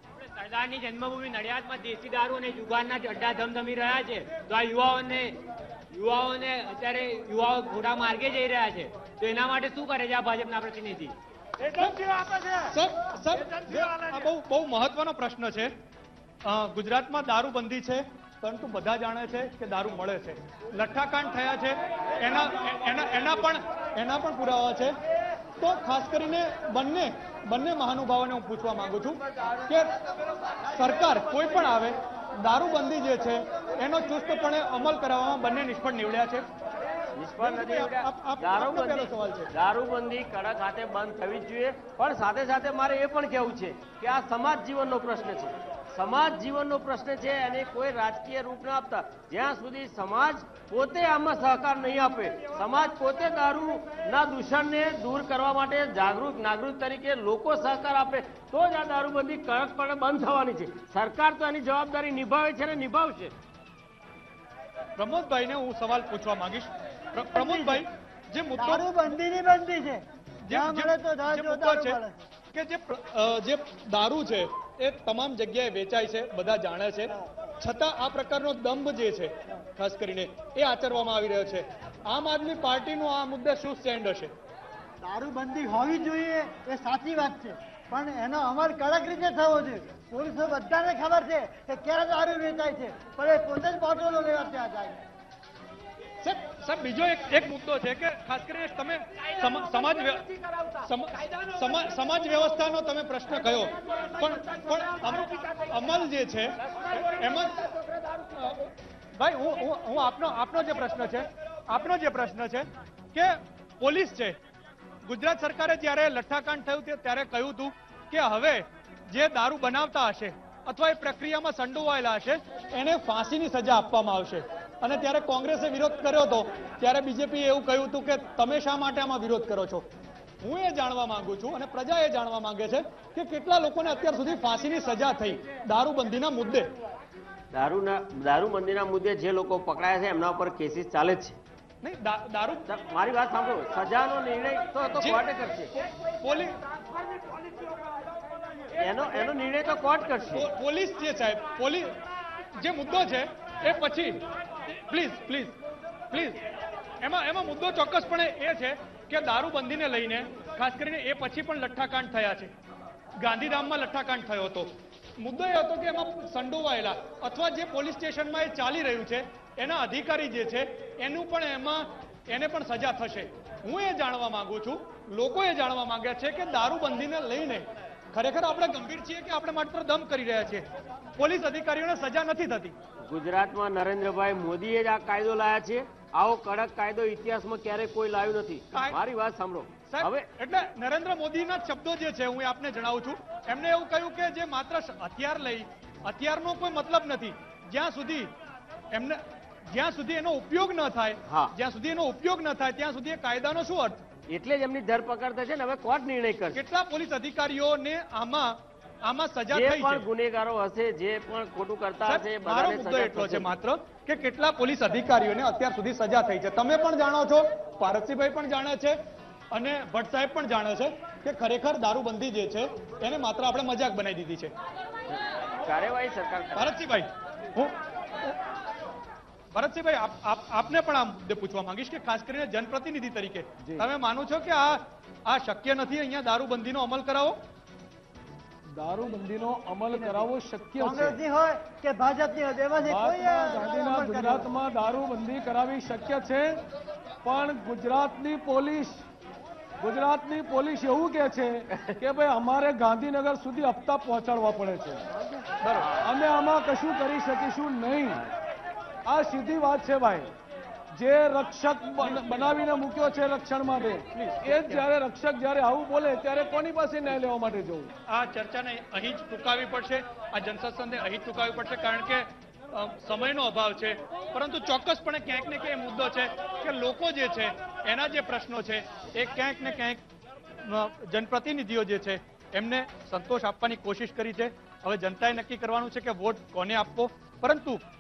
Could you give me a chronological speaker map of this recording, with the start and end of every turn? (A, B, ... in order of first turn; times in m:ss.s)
0:00.4-0:05.4 A
0:05.9-0:11.2 A
0:11.7-0:15.7 B
0:16.4-0:25.0 B
0:25.6-0:29.9 B
0:30.7-0:36.4 B
0:37.2-1:03.3 C
0:37.4-0:39.5 B
1:05.0-1:09.1 B
1:07.3-1:07.8 D
1:08.6-1:12.2 D
1:10.4-1:12.0 B
1:12.5-1:24.3 B
1:25.0-1:35.0 D
1:36.2-1:40.2 B
1:40.8-1:47.7 B
1:48.4-1:54.4 B
1:55.0-2:09.9 B
2:10.4-2:16.7 B
2:17.5-2:21.4 C
2:21.8-2:22.6 B
2:22.7-2:25.7 C
2:25.0-2:25.2 B
2:26.2-2:26.6 B
2:28.8-2:30.5 C
2:30.4-2:31.9 B
2:32.6-2:34.2 B
2:34.8-2:35.6 B
2:36.1-2:36.4 B
2:37.0-2:42.5 B
2:43.2-3:00.6 B
3:01.2-3:02.7 B
3:03.1-3:10.3 C
3:08.7-3:09.0 B
3:09.9-3:18.3 B
3:18.9-3:24.0 B
3:21.3-3:21.5 C
3:24.3-3:26.6 C
3:26.6-3:30.0 B
3:29.5-3:33.5 C
3:32.1-3:39.0 B
3:39.5-3:44.5 B
3:45.1-3:46.7 C
3:46.6-3:48.3 B
3:49.5-3:57.4 B
3:58.7-4:01.2 E
4:00.8-4:04.5 D
4:02.8-4:06.6 E
4:07.2-4:09.0 E
4:09.8-4:15.4 E
4:15.6-4:16.0 B
4:16.0-4:18.2 E
4:19.1-4:20.3 E
4:20.9-4:27.9 E
4:22.0-4:22.6 B
4:24.1-4:24.9 B
4:28.1-4:40.0 B
4:40.6-4:47.8 B